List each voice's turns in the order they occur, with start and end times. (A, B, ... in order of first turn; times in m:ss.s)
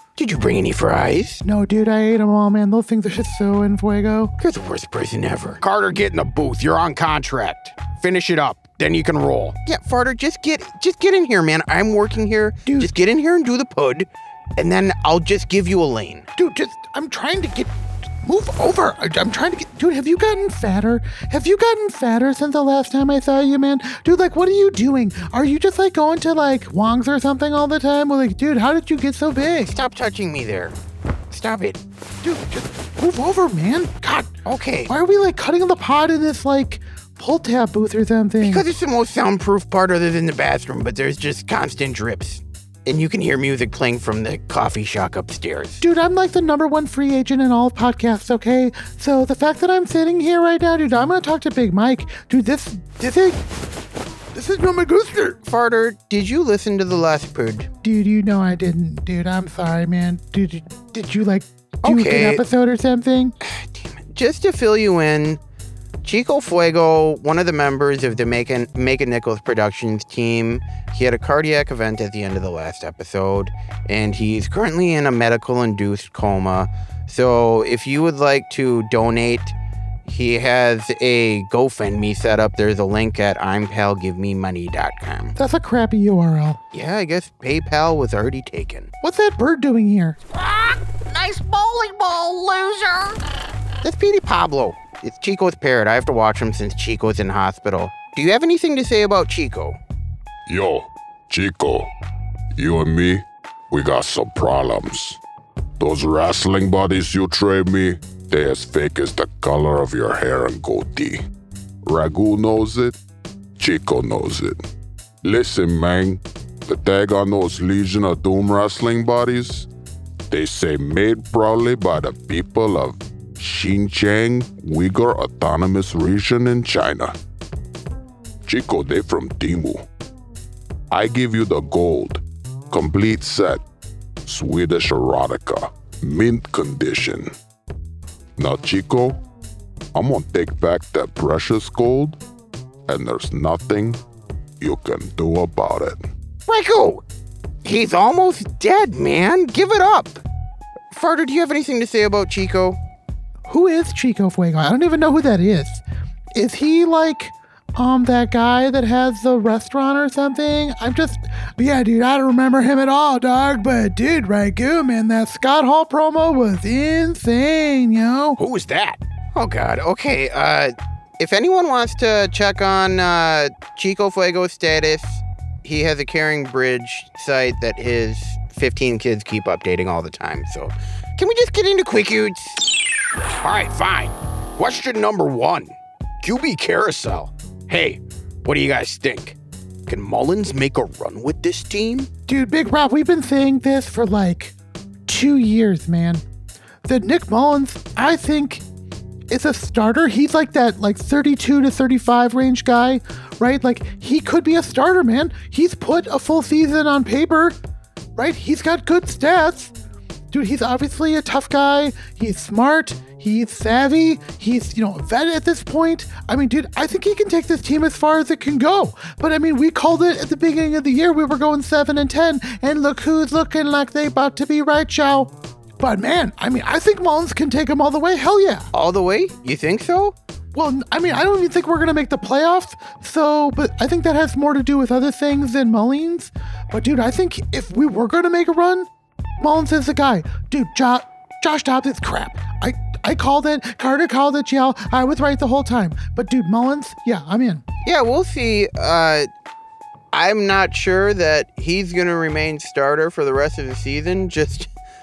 0:00.2-0:01.4 A
0:01.4-0:04.3 B
0:04.4-0:05.6 A
0:05.6-0:09.6 C
0:09.6-0:16.2 A
0:12.6-0:12.9 B
0:16.4-0:29.7 B
0:29.7-0:30.8 A
0:31.3-0:31.8 A
0:32.2-0:34.3 B
0:34.4-0:34.9 A
0:34.9-0:38.6 B
0:38.4-0:45.8 A
0:45.8-0:53.4 B
0:54.3-0:55.4 B
0:55.4-0:57.7 A
0:57.8-1:03.3 B
1:01.8-1:02.4 A
1:03.4-1:05.4 A
1:06.0-1:19.5 A
1:20.0-1:25.3 A
1:25.4-1:26.6 B
1:26.7-1:28.9 A
1:29.0-1:30.2 B
1:30.3-1:33.2 D
1:33.8-1:39.8 A
1:40.5-1:41.9 E
1:42.6-1:45.2 E
1:45.8-1:51.2 E
1:51.8-1:53.0 E
1:53.6-1:54.6 E
1:55.2-1:59.7 E
2:00.3-2:07.2 E
2:08.5-2:09.8 E
2:10.9-2:13.6 E
2:14.2-2:17.3 E
2:18.4-2:19.2 E
2:19.9-2:22.2 E
2:22.9-2:24.0 E
2:24.6-2:26.0 E
2:26.5-2:27.0 A
2:27.6-2:30.2 A
2:30.9-2:32.8 A
2:33.5-2:35.8 B
2:36.4-2:48.4 B
2:48.4-2:49.0 C
2:49.3-3:02.6 A
3:03.4-3:09.4 C
3:09.9-3:11.5 C
3:11.4-3:12.1 A
3:12.3-3:14.5 B
3:15.1-3:16.2 B
3:16.8-3:18.6 B
3:19.3-3:27.6 B
3:28.2-3:29.7 B
3:30.3-3:48.7 B
3:48.7-3:50.1 A
3:50.5-3:58.9 B
3:59.4-4:07.6 B
4:07.8-4:09.3 A
4:10.1-4:14.7 A